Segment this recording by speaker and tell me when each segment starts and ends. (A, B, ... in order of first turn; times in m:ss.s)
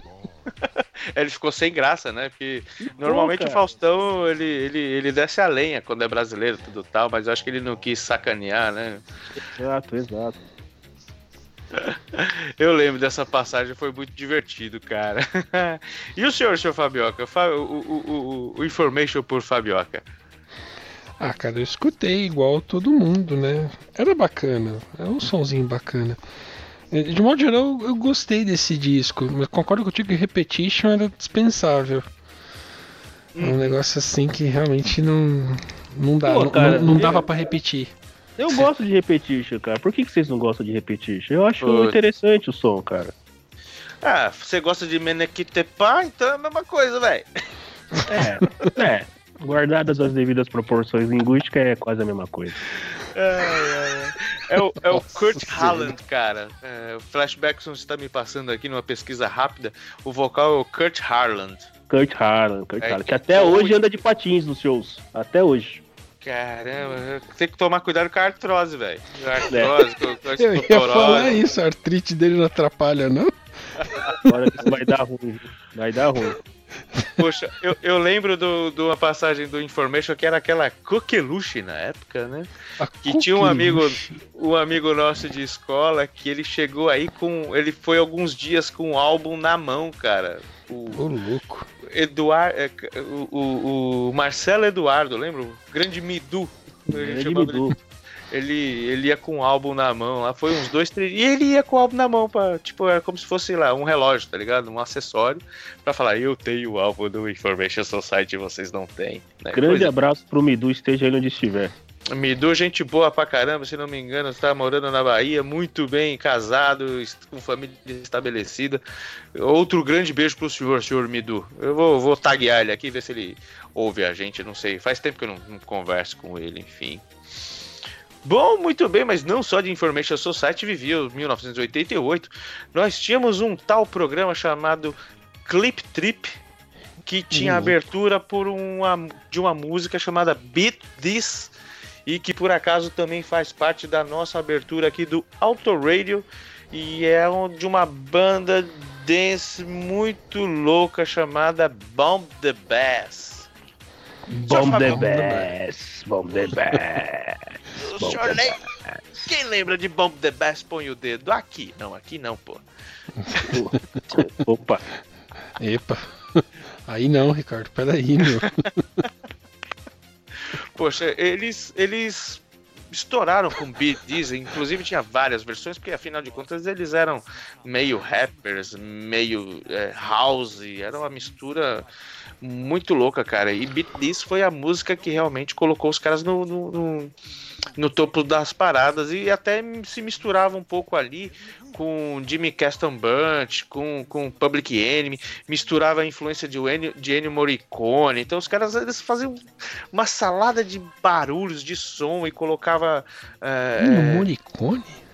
0:00.6-0:09.0 A
0:02.8-0:03.6 B
0:09.4-0:10.4 B
0:11.7-0:20.0 A
0:21.2-0:26.2 C
0:26.9-0:32.0 C
0:33.3-0:33.8 A
0:33.4-0:37.9 C
0:36.2-0:37.2 B
0:38.4-0:43.1 B
0:41.6-0:41.9 A
0:44.0-0:47.3 A
0:48.1-0:52.5 B
0:53.1-1:01.7 A
0:54.9-0:55.8 C
1:01.9-1:05.8 B
1:02.8-1:03.8 A
1:06.2-1:11.4 A
1:10.4-1:13.3 C
1:14.3-1:16.4 B
1:17.2-1:22.5 A
1:22.8-1:24.2 C
1:23.0-1:31.0 A
1:30.9-1:31.7 C
1:31.8-1:37.7 A
1:36.9-1:37.8 B
1:38.3-1:49.9 A
1:49.5-1:51.7 B
1:52.1-1:58.8 A
1:59.3-2:07.0 A
2:08.2-2:14.9 A
2:15.4-2:16.3 A
2:17.0-2:21.5 A
2:17.3-2:17.7 C
2:22.0-2:33.5 A
2:34.3-2:35.5 C
2:34.5-2:35.3 A
2:34.5-2:37.4 B
2:37.8-2:38.6 A
2:38.0-2:39.2 B
2:39.2-2:42.6 A
2:43.2-2:44.0 C
2:43.5-2:44.8 B
2:45.6-2:49.0 C
2:50.7-3:01.9 A
3:02.4-3:07.1 A
3:07.8-3:19.4 A
3:19.9-3:24.3 A
3:23.8-3:25.0 C